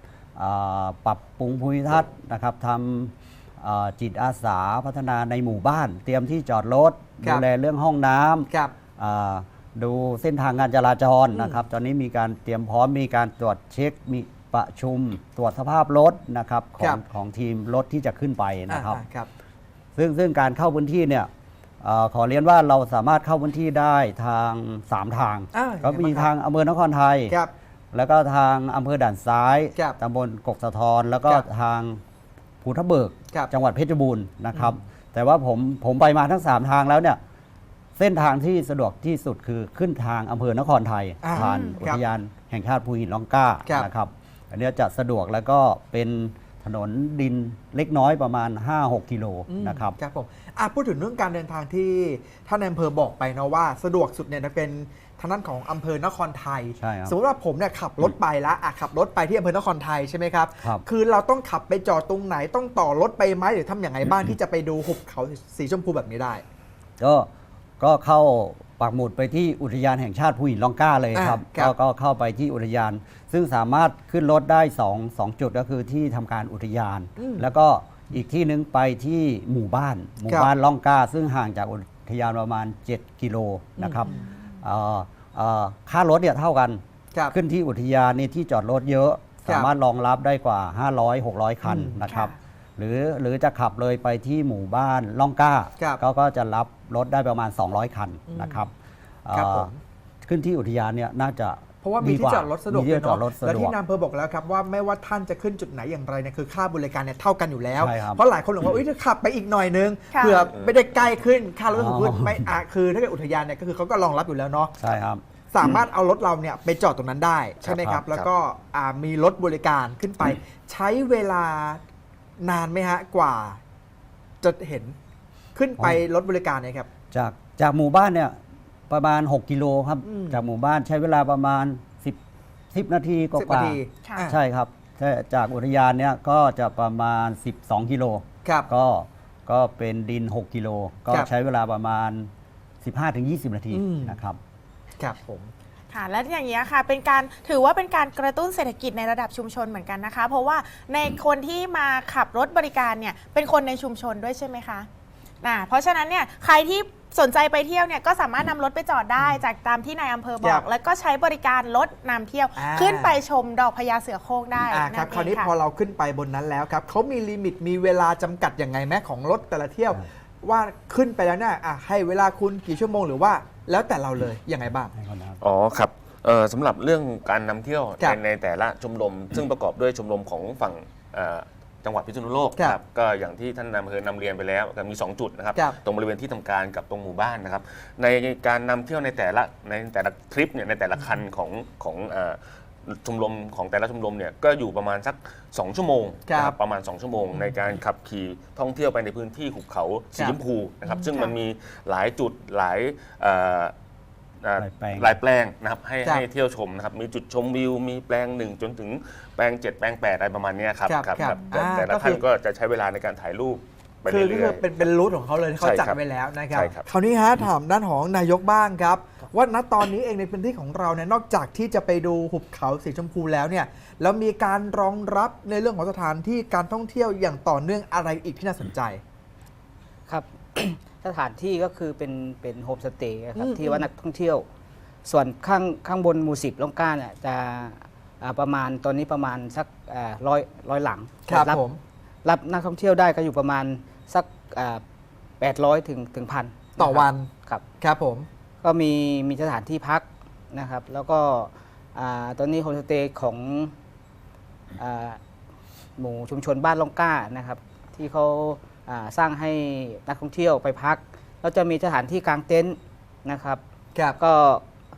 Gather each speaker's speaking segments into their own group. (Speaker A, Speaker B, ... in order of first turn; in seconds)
Speaker A: 0.4-19.0, 20.0-21.3, 21.8-27.4, 27.9-32.0, 32.6-37.2, 38.0-50.0, 56.8-57.1, 67.0-67.3, 67.8-84.1, 84.6-98.7, 99.2-99.7, 100.2-103.8, 107.8-108.2, 111.7-112.5, 114.8-115.2, 117.7-118.0, 125.8-126.0, 127.1-128.4, 128.9-132.2, 132.7-142.3, 142.8-144.4, 175.0-175.4, 204.6-205.2
Speaker B: 8.5-8.7, 11.3-11.6, 18.7-19.3, 25.5-26.3, 41.2-42.0, 49.5-66.4, 71.1-71.7, 77.2-77.5, 83.8-84.2, 89.5-89.7, 91.6-92.1, 98.3-98.7, 99.3-99.8, 101.8-114.8, 115.5-121.8, 122.4-123.6, 124.4-125.0, 125.5-126.9, 130.0-130.4, 133.3-134.4, 143.7-144.2, 145.0-145.5, 159.2-159.4, 160.4-160.7, 162.6-163.2, 164.7-174.9, 196.3-196.6, 200.2-201.0, 210.9-212.2, 214.1-229.0, 233.4-233.9, 241.3-241.8, 246.8-247.3, 247.8-248.3
Speaker C: 41.4-41.8, 84.0-84.3, 92.1-92.4, 110.1-110.5, 134.0-134.3, 145.9-154.9, 155.4-165.5, 211.2-211.7
Speaker D: 110.5-110.8, 117.6-118.3, 175.4-203.7, 204.4-214.9, 215.6-216.0, 216.5-216.9
Speaker E: 230.1-234.5, 235.1-241.6, 242.2-244.8, 245.4-247.6, 248.6-253.7, 254.8-255.2, 256.0-263.6, 264.2-264.6